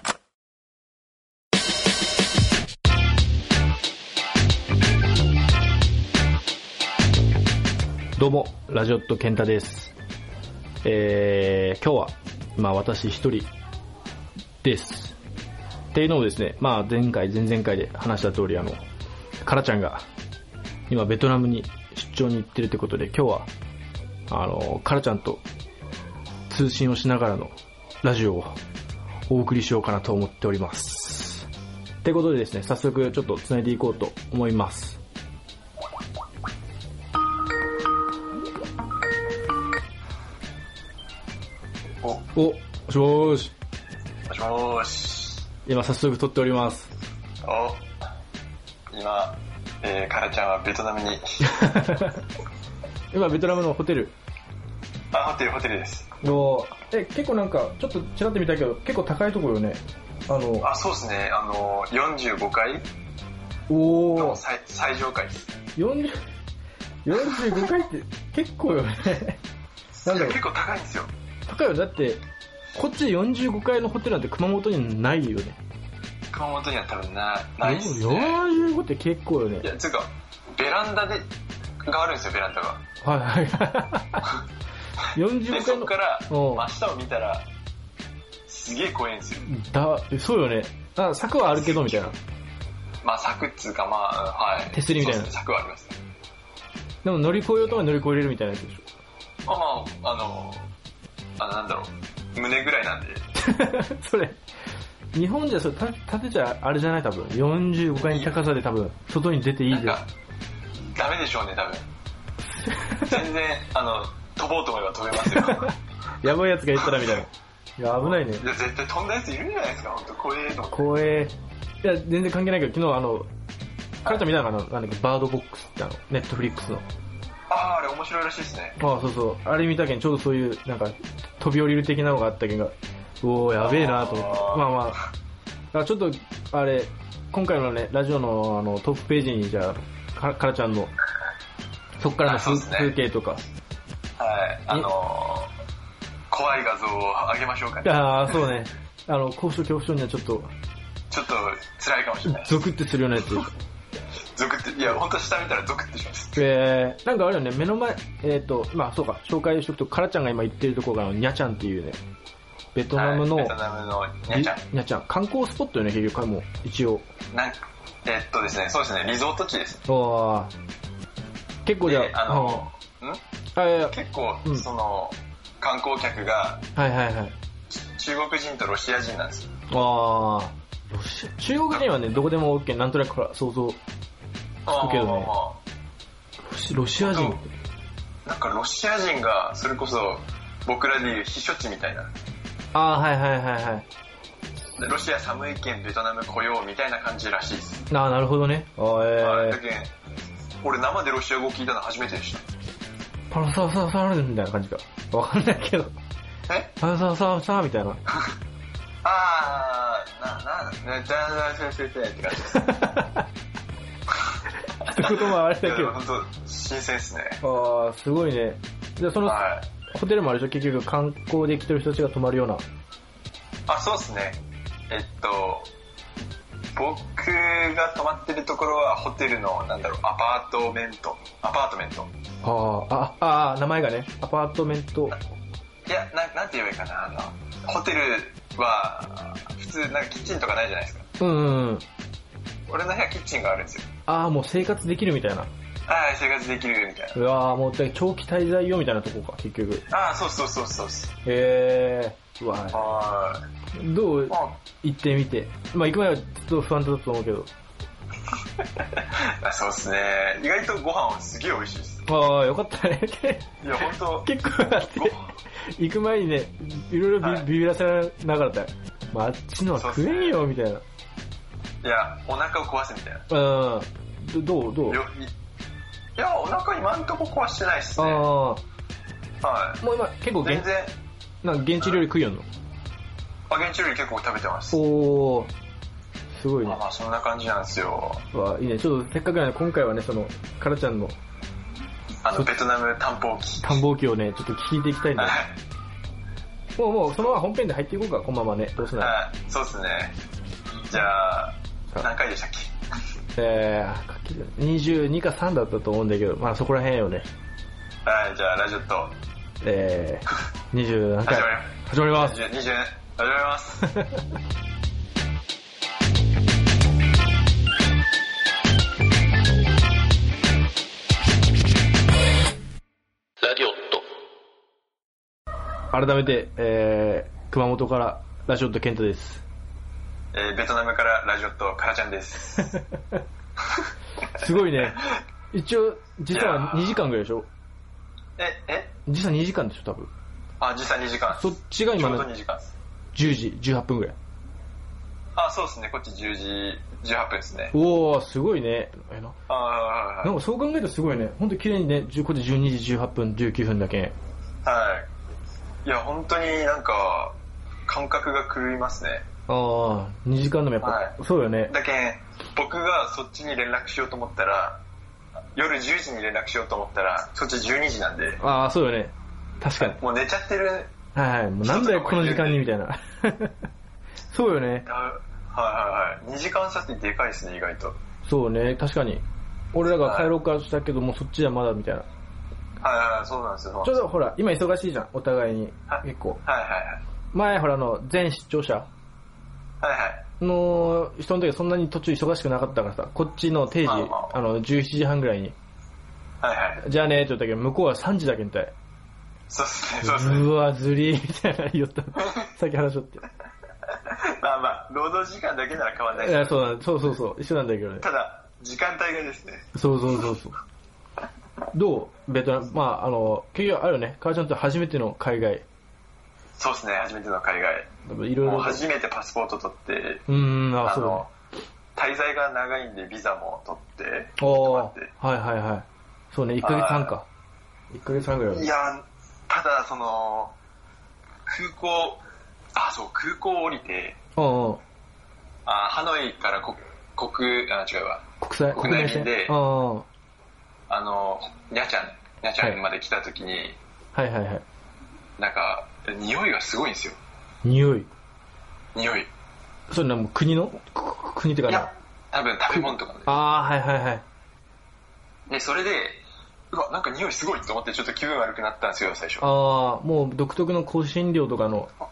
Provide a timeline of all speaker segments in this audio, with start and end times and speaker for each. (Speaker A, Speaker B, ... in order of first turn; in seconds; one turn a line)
Speaker A: 8.2-9.9
Speaker A: 10.8-13.5
Speaker A: 14.6-15.2
Speaker A: 15.9-18.8
Speaker A: 19.4-20.0
Speaker A: 20.9-23.5
Speaker A: 24.3-25.4
Speaker A: 26.5-28.6
Speaker A: 29.3-31.5
Speaker A: 32.0-35.0
Speaker A: 42.3-43.5
Speaker B: 44.3-45.4
Speaker A: 45.6-46.9
Speaker B: 47.4-47.9
Speaker B: 48.9-51.9
Speaker A: 51.5-52.2
Speaker A: 53.1-54.1
Speaker B: 55.1-56.1
Speaker A: 56.2-60.7
Speaker B: 60.6-62.9
Speaker A: 63.7-64.4
Speaker B: 64.1-65.5
Speaker A: 65.8-66.2
Speaker A: 67.0-69.4
Speaker B: 67.3-67.7
Speaker B: 70.0-71.1
Speaker A: 70.0-70.4
Speaker A: 71.5-72.2
Speaker A: 72.7-75.6
Speaker B: 76.3-78.4
Speaker A: 77.6-79.7
Speaker B: 79.6-81.3
Speaker B: 81.8-82.8
Speaker A: 83.0-84.3
Speaker A: 85.1-86.7
Speaker B: 85.5-87.5
Speaker B: 88.5-89.5
Speaker A: 89.5-92.2
Speaker B: 91.4-92.1
Speaker B: 93.0-96.0
Speaker A: 94.7-95.3
Speaker A: 97.0-98.8
Speaker B: 99.5-100.7
Speaker B: 101.4-103.3
Speaker A: 103.4-104.4
Speaker A: 105.1-110.0
Speaker B: 108.0-108.5
Speaker B: 109.7-110.1
Speaker B: 110.8-111.8
Speaker A: 112.5-113.2
Speaker B: 113.0-115.7
Speaker A: 115.2-118.4
Speaker B: 116.8-117.1
Speaker B: 118.0-120.9
Speaker A: 120.7-123.3
Speaker A: 124.0-126.8
Speaker B: 127.5-128.8
Speaker A: 128.8-135.0
Speaker B: 133.6-134.9
Speaker A: 135.7-140.9
Speaker A: 142.0-143.4
Speaker B: 142.2-142.9
Speaker B: 144.2-145.5
Speaker B: 146.3-148.4
Speaker A: 147.8-150.5
Speaker B: 151.1-152.6
Speaker A: 152.2-153.5
Speaker B: 154.3-156.4
Speaker A: 156.3-162.0
Speaker A: 162.7-163.6
Speaker B: 162.9-164.6
Speaker A: 164.3-167.1
Speaker B: 167.3-169.8
Speaker A: 169.9-170.5
Speaker A: 171.6-172.7
Speaker B: 171.8-173.2
Speaker A: 173.6-173.9
Speaker B: 173.9-176.6
Speaker A: 176.8-177.3
Speaker B: 177.7-179.5
Speaker A: 179.7-183.8
Speaker B: 184.7-185.6
Speaker A: 184.7-185.3
Speaker A: 186.5-187.5
Speaker B: 186.9-187.4
Speaker B: 188.2-192.1
Speaker A: 192.7-193.8
Speaker B: 194.8-197.9
Speaker A: 197.9-199.6
Speaker B: 199.2-199.9
Speaker B: 200.6-202.4
Speaker A: 203.3-205.9
Speaker B: 206.5-206.7
Speaker A: 206.8-208.0
Speaker B: 209.0-212.9
Speaker A: 212.5-213.2
Speaker A: 214.8-216.0
Speaker B: 214.8-217.4
Speaker A: 217.4-222.6
Speaker B: 219.2-219.6
Speaker B: 223.7-225.7
Speaker B: 226.7-232.1
Speaker A: 232.4-235.2
Speaker B: 235.9-241.0
Speaker A: 241.2-241.8
Speaker B: 242.7-243.8
Speaker A: 244.1-245.5
Speaker B: 245.9-247.2
Speaker A: 247.1-249.8
Speaker B: 249.9-251.1
Speaker A: 251.2-252.8
Speaker B: 252.7-253.4
Speaker A: 253.7-257.5
Speaker B: 254.3-254.6
Speaker B: 258.8-262.0
Speaker A: 262.1-263.5
Speaker B: 263.6-265.3
Speaker A: 264.2-270.8
Speaker B: 267.2-267.5
Speaker B: 269.7-270.4
Speaker B: 271.8-273.3
Speaker A: 273.3-275.0
Speaker B: 274.9-275.3
Speaker B: 276.2-278.2
Speaker A: 278.0-278.6
Speaker B: 279.4-279.8
Speaker A: 279.8-280.7
Speaker B: 280.4-280.9
Speaker A: 281.4-282.5
Speaker B: 283.5-284.8
Speaker A: 284.7-285.5
Speaker A: 286.3-286.8
Speaker B: 286.6-288.2
Speaker A: 288.3-291.2
Speaker B: 292.2-293.8
Speaker A: 293.6-295.4
Speaker B: 295.1-295.6
Speaker A: 296.8-299.1
Speaker B: 299.0-300.1
Speaker B: 300.9-302.8
Speaker A: 303.3-307.3
Speaker B: 308.0-309.2
Speaker A: 309.6-312.4
Speaker B: 311.2-313.9
Speaker A: 325.9-329.4
Speaker B: 330.3-332.8
Speaker A: 334.2-337.5
Speaker B: 336.3-337.1
Speaker B: 338.4-338.9
Speaker A: 339.1-340.1
Speaker B: 340.6-342.7
Speaker A: 341.3-342.3
Speaker A: 343.1-344.1
Speaker B: 345.3-347.7
Speaker A: 347.7-349.4
Speaker B: 349.5-350.3
Speaker A: 350.2-354.1
Speaker B: 354.6-355.1
Speaker B: 355.8-359.2
Speaker A: 359.5-361.7
Speaker B: 360.8-364.8
Speaker B: 365.5-368.4
Speaker A: 368.4-370.0
Speaker B: 369.8-370.9
Speaker A: 371.1-373.6
Speaker B: 371.6-372.6
Speaker A: 374.3-374.9
Speaker B: 374.8-377.9
Speaker A: 378.2-382.1
Speaker B: 379.9-380.3
Speaker B: 382.8-384.1
Speaker A: 383.8-386.4
Speaker B: 385.9-387.0
Speaker A: 387.3-388.9
Speaker B: 389.8-390.2
Speaker A: 390.4-395.5
Speaker B: 393.8-394.4
Speaker B: 396.4-396.8
Speaker A: 396.8-398.7
Speaker B: 399.5-400.5
Speaker A: 400.0-403.3
Speaker B: 404.0-406.6
Speaker A: 406.1-408.1
Speaker B: 408.0-409.7
Speaker A: 409.7-410.6
Speaker A: 411.7-415.6
Speaker B: 416.6-417.9
Speaker A: 418.0-418.8
Speaker B: 418.4-420.3
Speaker A: 420.3-421.2
Speaker B: 420.8-421.3
Speaker B: 421.9-425.1
Speaker A: 424.4-427.2
Speaker B: 426.6-427.1
Speaker A: 427.9-428.7
Speaker B: 428.5-430.5
Speaker B: 431.5-432.2
Speaker B: 432.7-434.2
Speaker A: 434.4-434.8
Speaker B: 435.6-439.6
Speaker A: 438.4-440.1
Speaker B: 440.9-443.8
Speaker A: 444.1-444.6
Speaker B: 445.4-447.2
Speaker A: 447.6-448.1
Speaker B: 448.9-449.3
Speaker A: 449.9-451.9
Speaker B: 451.7-453.4
Speaker A: 452.7-454.2
Speaker B: 455.5-459.5
Speaker A: 459.4-461.9